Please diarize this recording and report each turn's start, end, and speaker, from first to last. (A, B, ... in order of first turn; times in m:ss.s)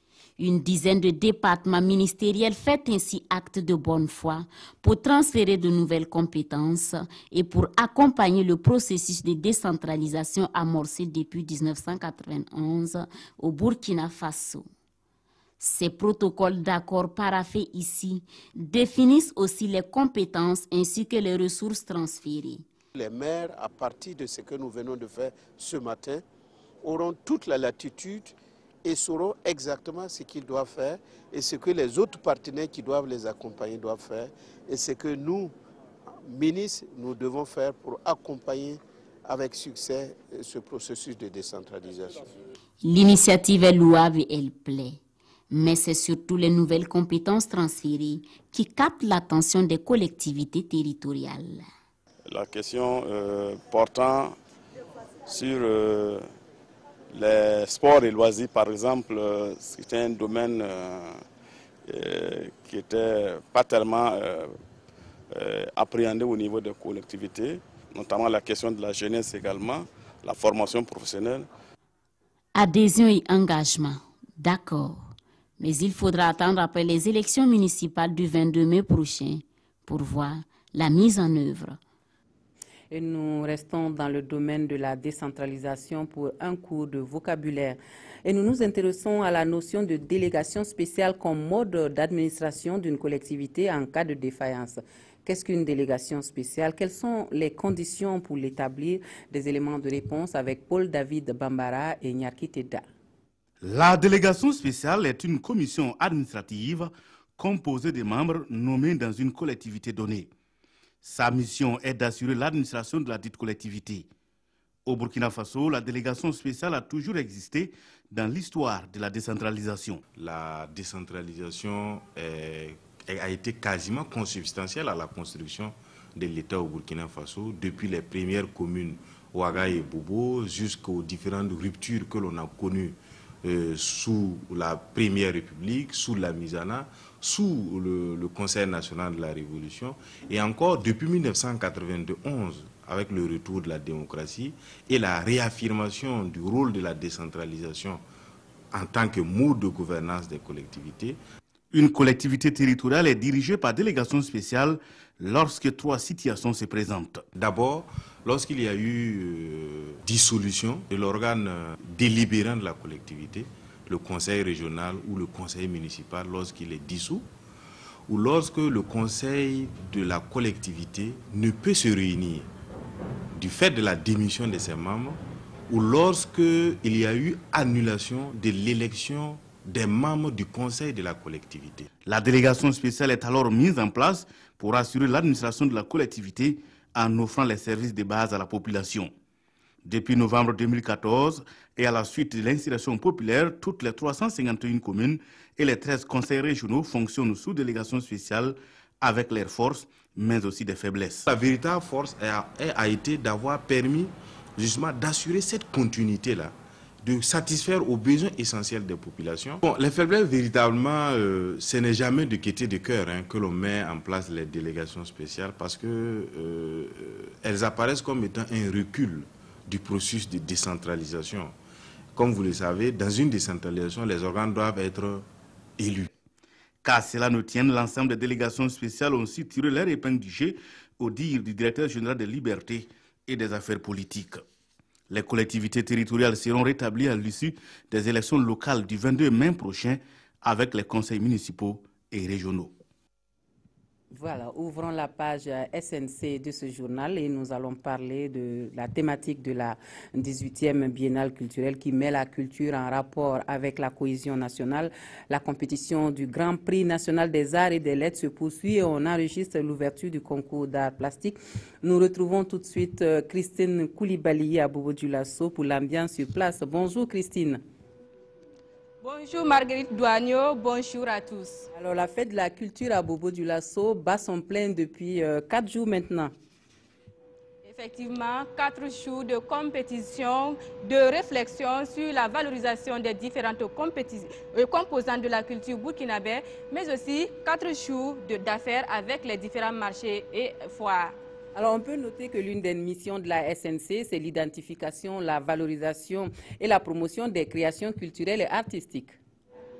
0:00.4-0:14.7 A
0:15.6-0:22.7 A
0:22.9-0:26.2 B
0:26.8-0:28.3 B
0:28.8-0:35.5 B
0:36.3-0:42.2 B
0:42.8-0:45.0 A
0:45.5-0:51.6 A
0:52.3-0:54.3 C
0:55.3-0:56.2 C
0:57.1-1:01.2 C
1:01.9-1:04.5 C
1:05.3-1:11.5 C
1:12.6-1:15.0 A
1:15.6-1:21.8 A
1:22.9-1:42.8 D
1:43.6-1:50.3 E
1:51.0-1:54.1 E
1:54.8-2:00.0 E
2:00.1-2:28.0 F
2:28.7-2:31.2 F
2:31.7-2:37.2 E
2:37.3-2:47.3 F
2:48.1-2:52.5 F
2:53.3-3:02.0 F
3:02.0-3:09.1 E
3:09.8-3:21.3 E
3:21.2-3:41.6 F
3:42.1-3:45.3 F
3:45.8-3:46.0 E
3:46.8-3:54.4 E
3:55.1-4:02.8 E
4:04.1-4:27.6 D
4:29.0-4:31.6 G
4:31.7-4:36.3 D
4:37.6-4:51.1 G
4:51.5-4:59.2 D